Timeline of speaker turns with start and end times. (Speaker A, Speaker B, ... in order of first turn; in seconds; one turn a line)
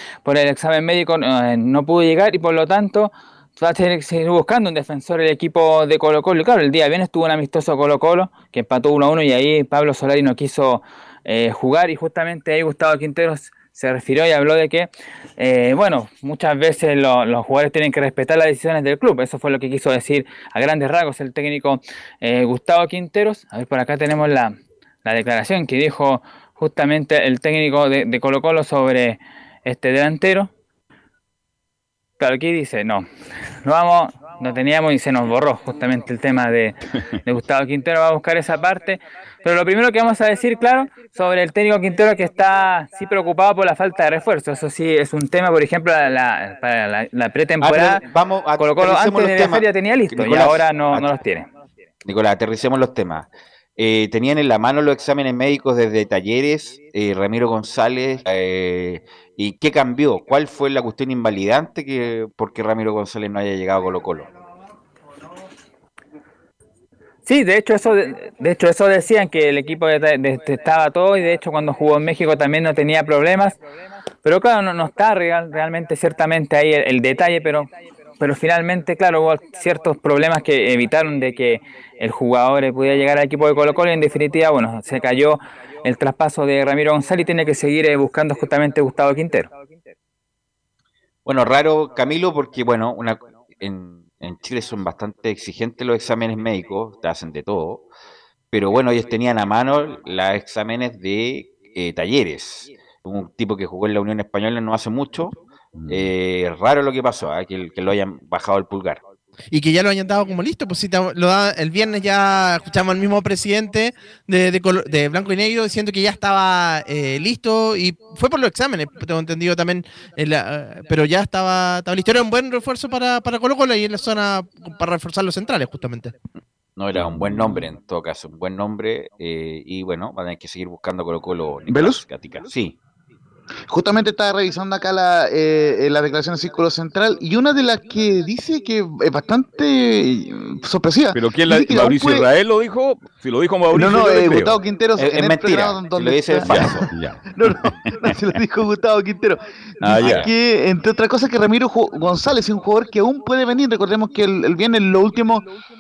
Speaker A: 0.2-30.5
Speaker A: 32.2-33.0
Speaker A: 33.6-48.0
Speaker B: 47.6-51.1
Speaker A: 48.6-51.5
Speaker B: 52.0-64.3
Speaker A: 67.2-73.6
Speaker A: 74.2-77.7
Speaker A: 78.2-89.5
Speaker B: 91.2-97.8
Speaker B: 98.5-105.3
Speaker C: 105.7-106.1
Speaker B: 105.9-109.0
Speaker D: 109.5-126.1
Speaker B: 126.8-132.8
Speaker C: 126.9-127.6
Speaker E: 131.7-132.0
Speaker E: 133.7-142.3
Speaker C: 141.1-144.6
Speaker E: 143.7-155.5
Speaker B: 145.0-146.9
Speaker C: 146.4-147.7
Speaker C: 149.8-150.3
Speaker B: 149.9-150.3